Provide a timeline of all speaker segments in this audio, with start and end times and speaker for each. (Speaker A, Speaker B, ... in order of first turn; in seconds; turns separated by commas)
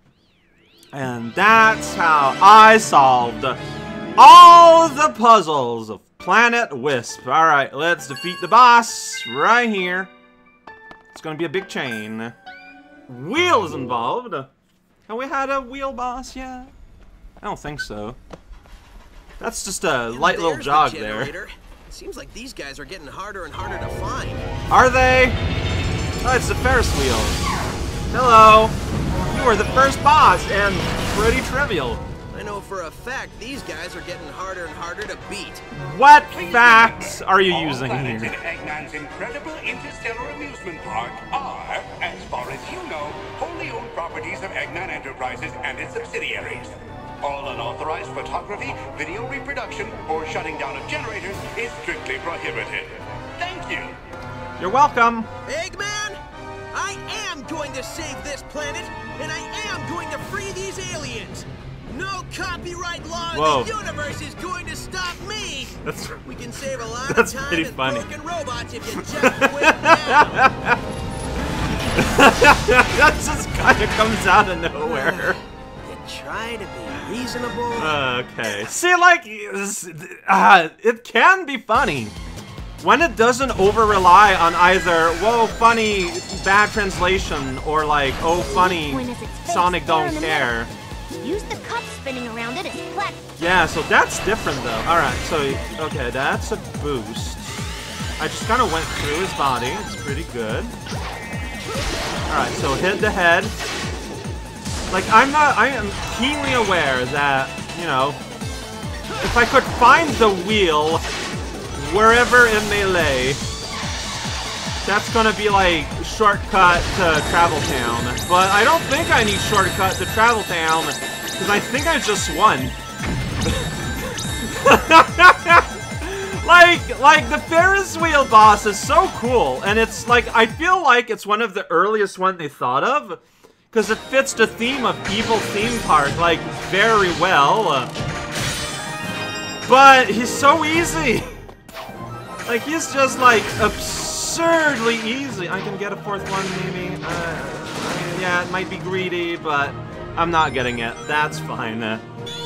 Speaker A: 0.9-3.6, Speaker A: 4.2-10.1, Speaker A: 11.1-12.3, Speaker A: 13.1-14.5, Speaker A: 15.1-16.7, Speaker A: 17.4-18.2, Speaker A: 19.4-21.3, Speaker B: 20.1-24.5, Speaker A: 24.7-25.4, Speaker A: 26.2-27.4, Speaker A: 28.1-32.0, Speaker B: 32.3-35.6, Speaker A: 35.7-38.3, Speaker C: 36.3-54.0, Speaker A: 54.6-55.3, Speaker B: 55.4-56.2, Speaker B: 56.7-70.5, Speaker A: 63.3-63.7, Speaker A: 65.8-66.3, Speaker A: 66.9-68.1, Speaker A: 69.0-70.8, Speaker A: 71.9-75.4, Speaker B: 74.7-78.7, Speaker A: 77.8-82.2, Speaker A: 82.8-90.7, Speaker D: 88.4-90.5, Speaker D: 91.2-93.2, Speaker A: 93.4-97.6, Speaker A: 98.2-100.8, Speaker A: 102.3-103.5, Speaker A: 104.9-108.2, Speaker A: 109.2-111.0, Speaker A: 111.7-113.4, Speaker A: 114.8-122.8, Speaker A: 123.5-137.9, Speaker A: 139.6-141.3, Speaker A: 142.4-152.0